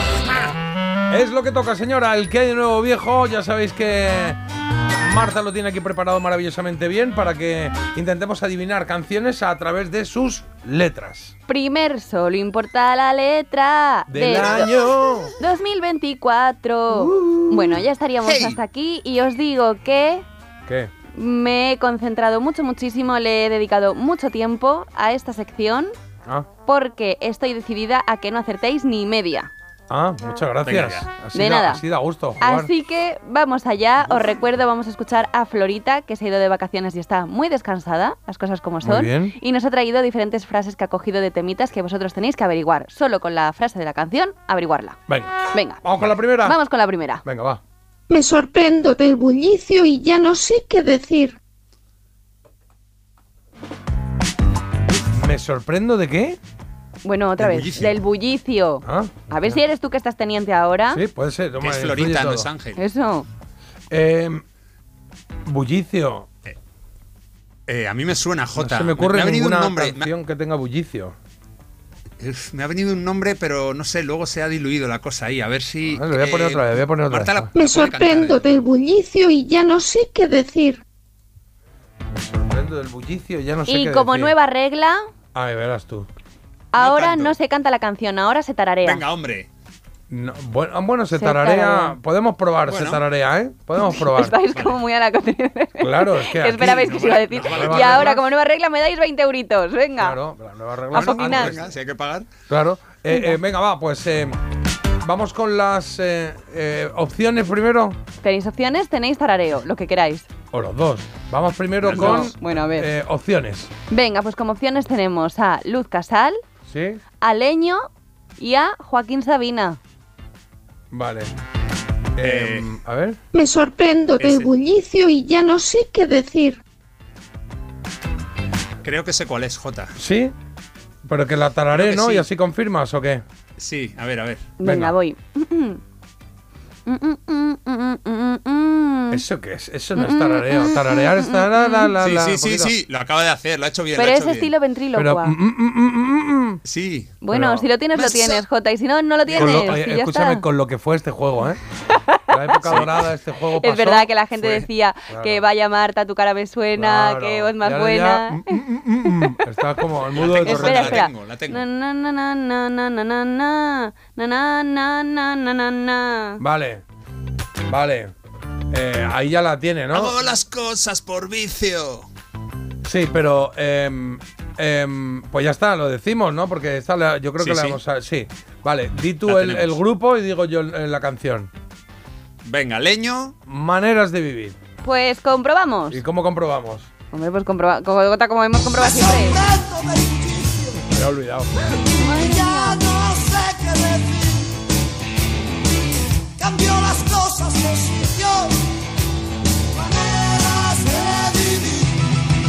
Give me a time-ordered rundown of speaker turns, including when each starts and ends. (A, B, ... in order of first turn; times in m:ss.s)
0:01.1-0:04.4 A
0:05.0-0:11.3 A
0:11.5-0:14.7 B
0:14.1-0:15.4 A
0:15.4-0:20.2 B
0:16.9-0:17.9 A
0:18.2-0:18.6 C
0:21.1-0:25.9 B
0:26.6-0:29.5 B
0:29.9-0:32.7 A
0:30.6-0:31.1 C
0:31.3-0:31.8 B
0:32.4-0:45.0 B
0:38.8-0:39.4 A
0:45.1-0:46.6 A
0:45.5-0:47.2 B
0:47.2-0:47.6 A
0:48.1-0:51.3 D
0:55.1-0:56.4 A
0:57.0-1:01.0 B
0:57.4-0:58.0 C
0:58.8-0:59.6 A
1:00.9-1:02.5 A
1:01.6-1:02.8 C
1:02.8-1:03.3 B
1:03.9-1:04.4 A
1:05.4-1:06.3 A
1:07.7-1:10.1 C
1:08.6-1:11.1 A
1:12.2-1:18.6 C
1:15.8-1:17.5 A
1:17.5-1:20.8 D
1:22.1-1:24.3 A
1:23.7-1:25.0 B
1:25.3-1:26.1 A
1:26.7-1:29.0 B
1:26.7-1:27.4 C
1:28.8-1:29.5 C
1:30.1-1:34.4 A
1:31.1-1:32.0 B
1:32.6-1:33.0 C
1:33.7-1:40.2 B
1:34.5-1:34.8 C
1:35.8-1:38.2 A
1:36.7-1:38.2 C
1:40.0-1:41.6 A
1:40.9-1:41.6 B
1:40.9-1:42.3 C
1:42.5-1:44.4 A
1:43.1-1:43.4 B
1:45.0-1:48.0 A
1:48.2-1:50.3 B
1:50.5-1:53.7 A
1:51.8-1:52.3 C
1:51.9-1:52.9 B
1:53.9-1:56.4 B
1:56.7-1:57.0 A
1:57.2-1:57.8 B
1:58.4-1:59.8 B
2:00.9-2:01.3 A
2:02.2-2:03.2 A
2:02.2-2:02.7 C
2:03.3-2:06.6 D
2:04.2-2:04.5 C
2:08.8-2:09.9 C
2:10.0-2:10.3 A
2:11.0-2:13.2 A
2:11.7-2:12.3 C
2:13.6-2:14.5 C
2:14.6-2:15.8 B
2:14.6-2:14.9 A
2:16.8-2:19.2 B
2:19.1-2:22.8 A
2:20.0-2:21.9 B
2:22.0-2:24.5 C
2:23.9-2:25.4 B
2:24.9-2:26.6 A
2:26.6-2:27.1 C
2:27.2-2:30.4 B
2:27.3-2:27.7 A
2:27.9-2:28.4 C
2:29.3-2:29.8 C
2:29.4-2:31.6 A
2:32.1-2:32.9 B
2:32.3-2:35.4 A
2:32.6-2:32.9 C
2:33.6-2:39.4 B
2:36.7-2:41.0 A
2:40.1-2:41.6 C
2:40.4-2:46.4 B
2:46.4-2:46.8 A
2:47.7-2:48.1 A
2:48.7-2:50.2 A
2:49.9-2:52.1 C
2:52.8-3:01.5 A
2:57.4-2:57.8 C
2:59.2-2:59.8 C
3:02.4-3:03.3 C
3:03.5-3:04.6 A
3:04.8-3:06.0 B
3:05.9-3:06.9 A
3:07.1-3:09.4 B
3:08.8-3:10.7 E
3:10.8-3:11.8 A
3:11.8-3:12.9 B
3:12.5-3:14.6 E
3:16.4-3:18.6 E
3:19.7-3:22.0 E